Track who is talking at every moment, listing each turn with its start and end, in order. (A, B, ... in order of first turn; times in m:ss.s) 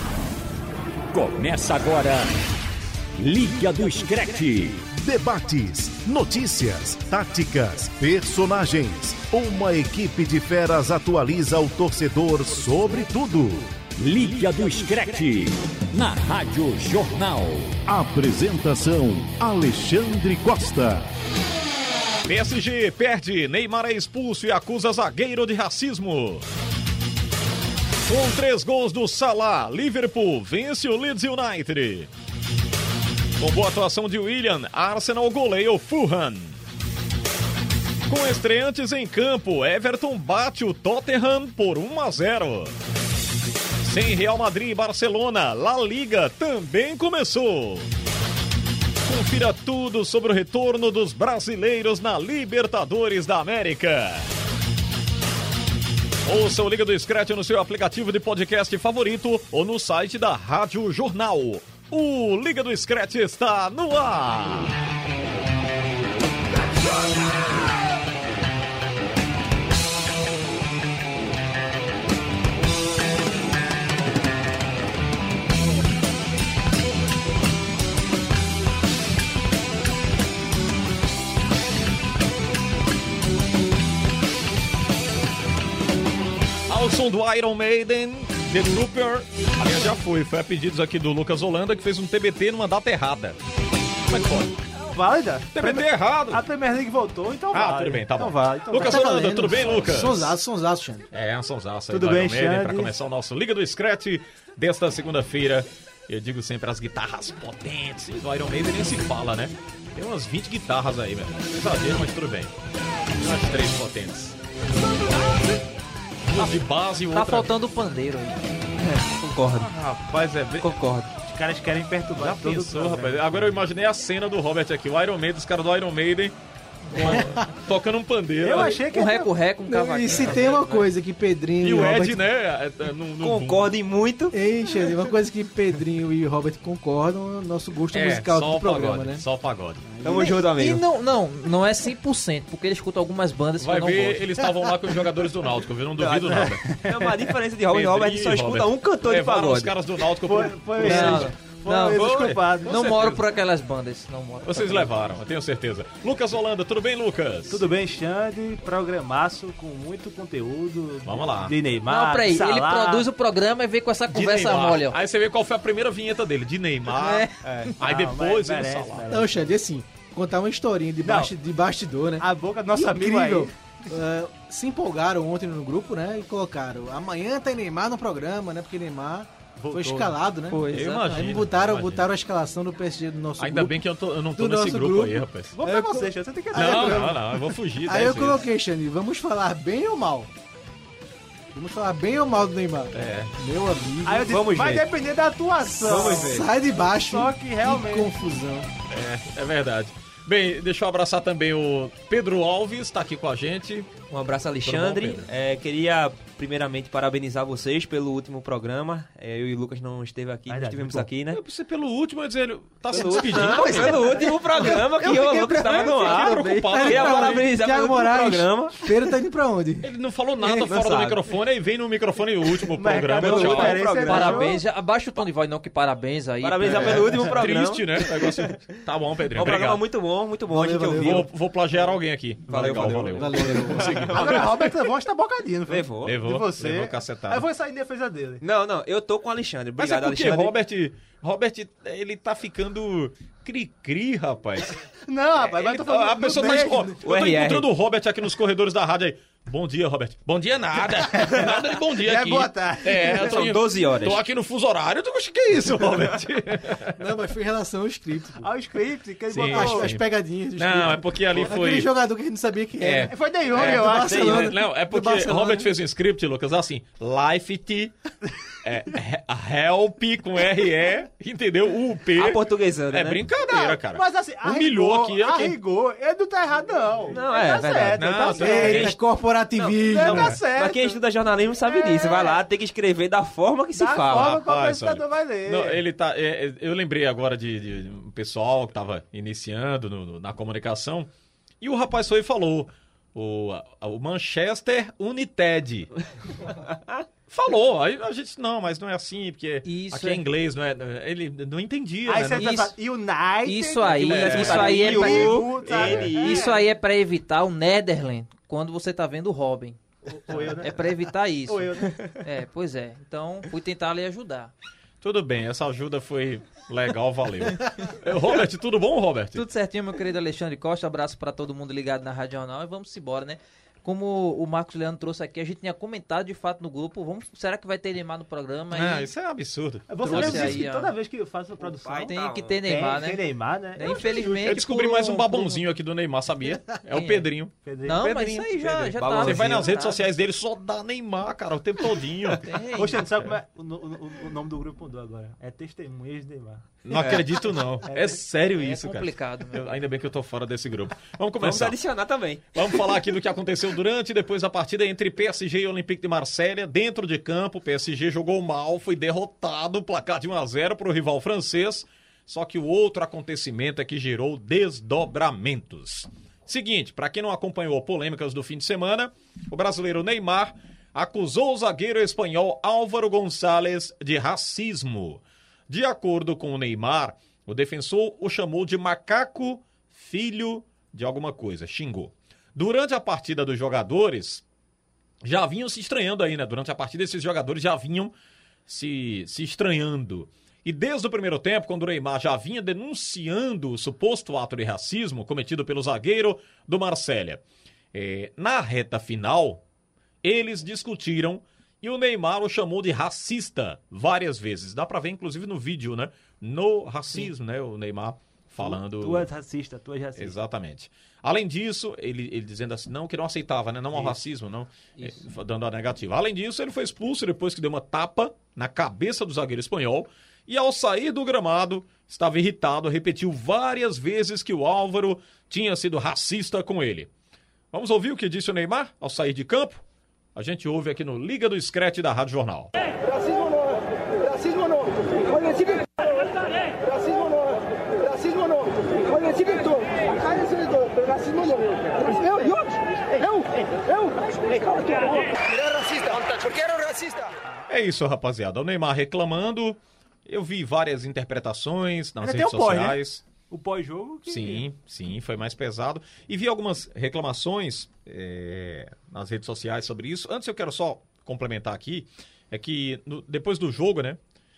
0:01.1-0:02.3 A
0:03.2-0:04.9 A
0:04.9-0:13.7 B
0:14.0-0:17.8 A
0:17.9-0:21.1 B
0:22.2-0:26.5 C
0:28.0-0:32.1 C
0:33.4-0:36.6 C
0:38.0-0:42.7 C
0:43.8-0:47.9 C
0:49.0-0:54.3 C
0:56.2-1:04.8 C
1:26.7-1:33.4 C
1:34.1-1:34.6 C
1:34.9-1:39.5 D
1:35.5-1:36.5 C
1:37.5-1:40.4 C
1:38.7-1:41.1 E
1:41.1-1:52.5 C
1:41.9-1:42.9 D
1:53.2-1:54.4 C
1:56.3-1:57.5 C
1:57.1-1:58.4 F
1:58.8-1:59.7 G
1:59.6-2:00.8 C
2:00.6-2:01.1 G
2:01.2-2:03.6 D
2:02.2-2:06.4 C
2:06.9-2:07.3 F
2:07.0-2:08.8 C
2:07.0-2:07.4 E
2:08.4-2:09.3 D
2:08.8-2:10.9 F
2:09.6-2:12.2 E
2:11.6-2:13.7 C
2:13.2-2:14.4 G
2:14.3-2:19.2 E
2:17.9-2:19.9 C
2:19.8-2:20.4 E
2:20.0-2:20.8 G
2:20.1-2:24.3 F
2:23.6-2:26.8 C
2:26.0-2:29.8 G
2:27.7-2:31.3 C
2:30.2-2:33.2 D
2:30.8-2:32.1 F
2:31.8-2:33.1 C
2:32.6-2:35.0 F
2:34.4-2:37.7 C
2:37.5-2:43.1 D
2:41.0-2:41.6 C
2:41.9-2:45.0 F
2:44.1-2:49.1 C
2:46.9-2:47.7 F
2:47.6-2:49.5 D
2:49.1-3:03.8 E
2:51.0-2:51.3 D
2:52.2-2:53.5 D
2:59.6-3:00.2 D
3:00.5-3:01.1 F
3:00.7-3:02.1 C
3:03.4-3:05.6 C
3:04.3-3:10.3 E
3:05.5-3:07.2 D
3:06.5-3:08.4 C
3:11.5-3:14.4 E
3:12.9-3:13.3 C
3:14.0-3:16.4 D
3:14.3-3:14.8 G
3:15.8-3:16.4 C
3:15.8-3:18.7 E
3:16.9-3:18.1 D
3:18.9-3:24.0 C
3:24.1-3:31.4 G
3:24.6-3:25.3 C
3:30.5-3:31.1 D
3:31.3-3:34.1 C
3:32.9-3:39.0 G
3:33.0-3:39.9 E
3:35.0-3:37.5 C
3:39.8-3:43.9 C
3:40.4-3:41.2 G
3:42.7-3:44.6 D
3:43.2-3:44.6 G
3:44.0-3:47.1 F
3:46.4-3:48.7 G
3:46.7-3:49.8 C
3:46.9-3:47.2 D
3:49.3-3:51.3 G
3:50.5-3:51.3 E
3:51.0-3:54.9 C
3:52.5-3:54.5 G
3:52.5-3:53.2 D
3:53.2-3:54.1 E
3:54.1-3:58.4 D
3:55.7-3:56.2 G
3:56.0-3:57.5 C
3:58.4-4:00.5 G
3:59.8-4:04.8 C
4:04.9-4:07.0 D
4:05.5-4:17.0 C
4:07.0-4:07.7 G
4:10.9-4:13.4 D
4:13.0-4:14.2 G
4:17.0-4:18.5 E
4:18.4-4:19.9 D
4:19.3-4:20.0 C
4:19.4-4:25.7 E
4:20.6-4:21.9 C
4:22.8-4:28.0 C
4:23.1-4:24.5 D
4:24.0-4:24.5 G
4:28.6-4:35.6 C
4:32.2-4:33.2 G
4:33.4-4:38.9 D
4:37.1-4:38.9 G
4:38.0-4:39.0 C
4:38.5-4:40.4 E
4:39.6-4:41.0 D
4:40.1-4:40.4 C
4:40.2-4:44.3 G
4:41.7-4:42.4 D
4:43.8-4:45.8 D
4:44.2-4:51.1 C
4:51.6-4:55.9 C
4:57.3-5:02.7 C
4:59.6-5:00.2 F
5:02.0-5:06.6 D
5:03.4-5:05.4 F
5:04.0-5:06.0 C
5:04.2-5:06.6 G
5:06.1-5:14.5 F
5:10.1-5:10.9 D
5:11.5-5:12.2 D
5:15.0-5:19.4 C
5:19.4-5:29.1 F
5:28.7-5:30.6 C
5:29.9-5:34.4 D
5:30.0-5:31.0 F
5:31.6-5:32.6 G
5:32.1-5:35.6 F
5:34.4-5:37.5 C
5:36.9-5:37.3 F
5:37.6-5:38.0 D
5:37.8-5:40.0 F
5:38.0-5:39.8 G
5:39.2-5:42.6 C
5:42.4-5:43.1 F
5:42.7-5:46.7 D
5:46.8-5:51.8 C
5:46.9-5:47.4 G
5:47.9-5:48.2 D
5:48.6-5:49.7 F
5:51.4-5:52.9 G
5:52.5-6:24.4 C
6:25.2-6:28.1 C
6:28.7-6:39.6 C
6:40.2-6:49.3 C
6:48.6-6:50.4 D
6:50.2-7:07.1 C
6:53.9-6:54.2 D
7:07.7-7:09.8 C
7:10.4-7:12.7 C
7:18.2-7:18.6 H
7:19.4-7:23.5 H
7:24.3-7:27.3 H
7:27.7-7:33.2 C
7:32.2-7:34.6 D
7:34.3-7:44.2 C